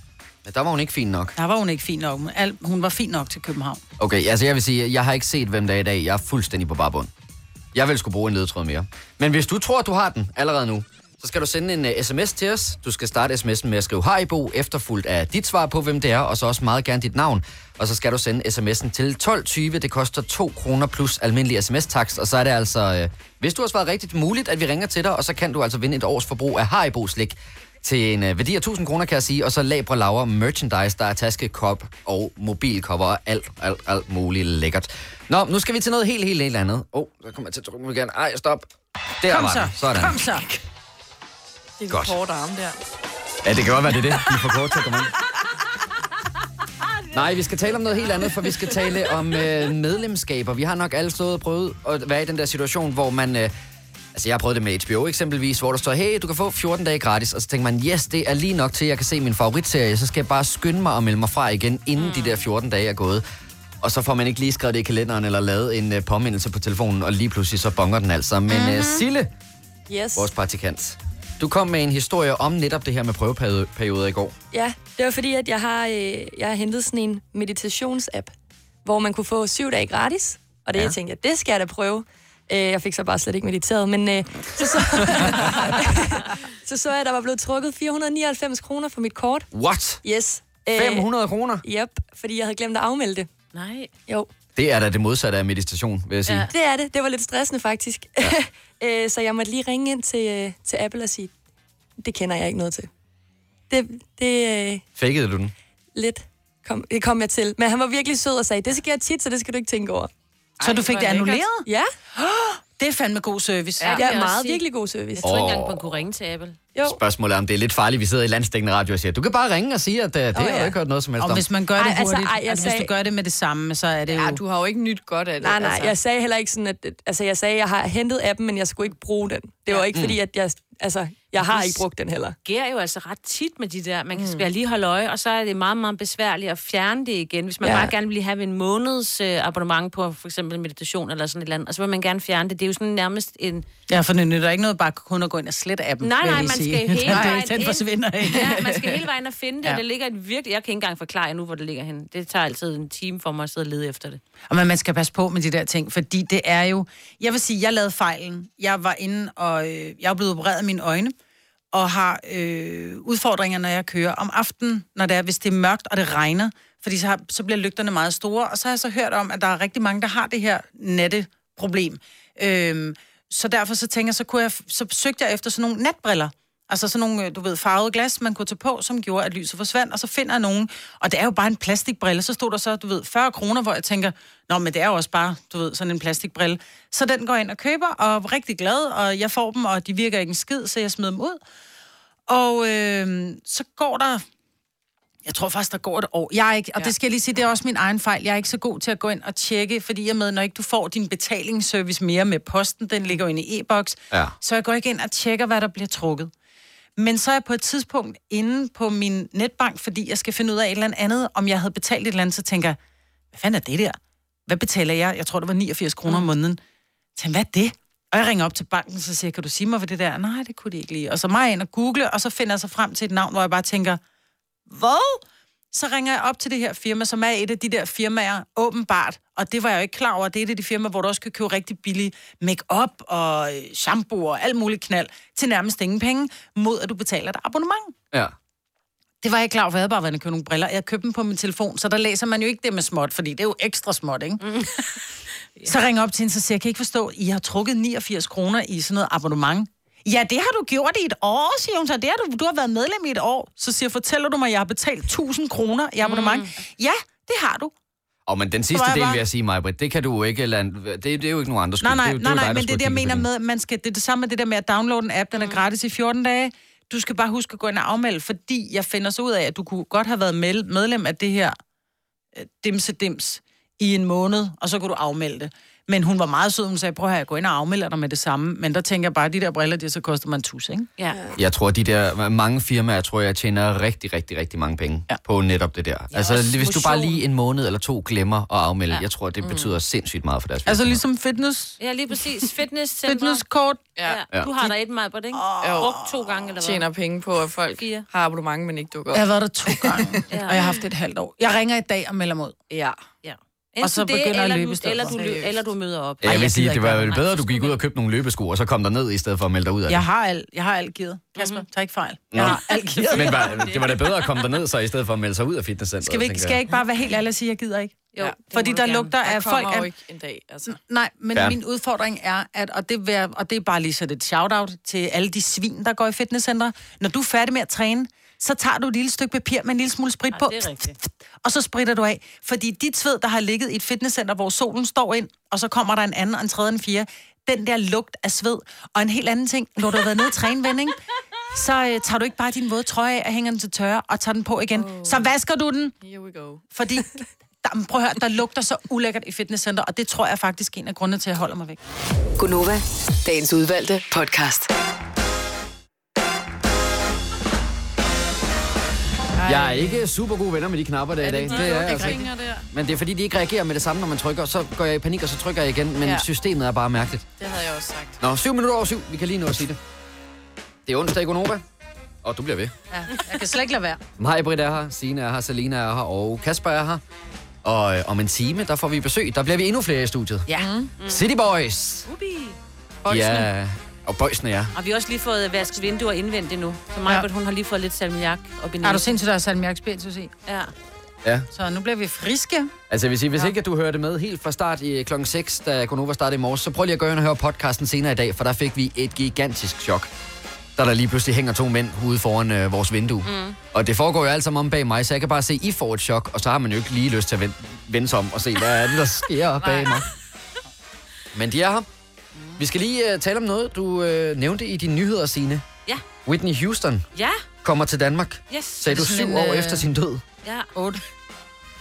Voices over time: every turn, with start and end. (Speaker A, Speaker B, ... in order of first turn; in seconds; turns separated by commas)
Speaker A: 0.4-1.4, Speaker B: 1.4-3.8, Speaker A: 4.0-7.1, Speaker A: 7.7-38.7, Speaker A: 39.2-40.2, Speaker B: 39.3-40.6, Speaker C: 41.8-42.8, Speaker A: 41.9-42.2, Speaker A: 43.4-45.1, Speaker A: 47.1-53.5, Speaker A: 54.1-63.2, Speaker D: 62.0-62.5, Speaker A: 63.8-69.3, Speaker B: 68.5-69.0, Speaker E: 69.9-70.3, Speaker A: 70.2-74.3, Speaker E: 74.5-89.5, Speaker A: 89.5-90.0, Speaker E: 90.0-91.1, Speaker A: 90.7-91.6, Speaker E: 91.6-93.3, Speaker D: 93.5-93.9, Speaker A: 94.6-96.5, Speaker E: 96.5-101.3, Speaker E: 102.0-102.9, Speaker E: 103.7-104.8, Speaker A: 105.0-105.5, Speaker E: 106.0-110.1, Speaker C: 110.6-111.5, Speaker B: 110.6-114.0, Speaker E: 111.7-111.9, Speaker D: 113.8-116.6, Speaker E: 113.9-115.2, Speaker A: 115.2-116.0, Speaker A: 116.8-121.5, Speaker E: 120.3-120.7, Speaker B: 121.2-124.4, Speaker E: 121.8-122.9, Speaker C: 124.1-126.0, Speaker E: 125.4-132.4, Speaker D: 132.4-143.7, Speaker C: 134.1-134.5, Speaker E: 137.6-137.9, Speaker B: 143.9-148.8, Speaker D: 146.0-154.2, Speaker B: 154.5-161.1, Speaker B: 161.7-191.4, Speaker B: 192.3-194.2, Speaker B: 195.2-206.3, Speaker B: 207.0-212.8, Speaker B: 213.3-216.6, Speaker B: 217.2-224.0, Speaker B: 224.7-237.9, Speaker B: 239.2-244.7, Speaker D: 244.4-245.0, Speaker B: 245.6-257.7, Speaker D: 256.0-256.5, Speaker A: 258.3-263.3, Speaker B: 258.7-259.2, Speaker B: 261.8-271.6, Speaker D: 265.4-265.6, Speaker B: 272.4-280.9, Speaker A: 281.4-291.0, Speaker D: 286.1-287.2, Speaker C: 289.4-289.8, Speaker B: 290.7-292.5, Speaker D: 291.8-293.4, Speaker B: 293.1-293.9, Speaker C: 294.0-294.2, Speaker D: 294.0-296.9, Speaker B: 295.3-296.0, Speaker C: 295.6-296.0, Speaker C: 296.6-300.7, Speaker D: 297.8-298.1, Speaker B: 299.1-302.6, Speaker D: 300.3-300.6, Speaker C: 302.7-303.0, Speaker D: 303.2-307.8, Speaker B: 303.8-305.2, Speaker C: 305.1-305.6, Speaker A: 306.2-310.0, Speaker B: 306.2-307.1, Speaker B: 309.9-313.6, Speaker D: 311.4-311.6, Speaker A: 312.3-316.6, Speaker D: 312.4-314.4, Speaker B: 316.0-319.9, Speaker D: 318.1-319.2, Speaker C: 319.2-320.8, Speaker B: 320.7-341.0, Speaker D: 330.3-330.9, Speaker B: 341.5-345.9, Speaker C: 344.8-345.3, Speaker C: 346.0-346.6, Speaker B: 346.7-351.8, Speaker F: 352.4-354.7, Speaker B: 359.4-360.0, Speaker A: 359.4-367.3, Speaker C: 361.2-362.2, Speaker B: 361.4-362.6, Speaker C: 367.4-368.2, Speaker A: 368.2-369.8, Speaker A: 370.9-371.6, Speaker A: 372.2-372.7, Speaker B: 372.9-374.0, Speaker A: 374.2-377.0, Speaker A: 377.6-380.5, Speaker C: 380.5-380.9, Speaker D: 381.0-381.3, Speaker A: 381.0-382.1, Speaker D: 382.1-382.6, Speaker B: 383.1-383.4, Speaker A: 383.1-384.7, Speaker D: 384.7-389.1, Speaker B: 388.8-390.3, Speaker D: 390.5-390.7, Speaker B: 391.5-392.7, Speaker A: 392.9-400.1, Speaker A: 400.8-410.1, Speaker D: 403.2-403.6, Speaker D: 409.6-410.0, Speaker A: 411.3-411.9, Speaker A: 412.6-415.6, Speaker A: 416.2-417.1, Speaker D: 417.1-417.4, Speaker A: 417.6-420.2, Speaker D: 418.5-418.9, Speaker B: 418.9-419.9, Speaker D: 420.4-420.7, Speaker B: 420.8-421.0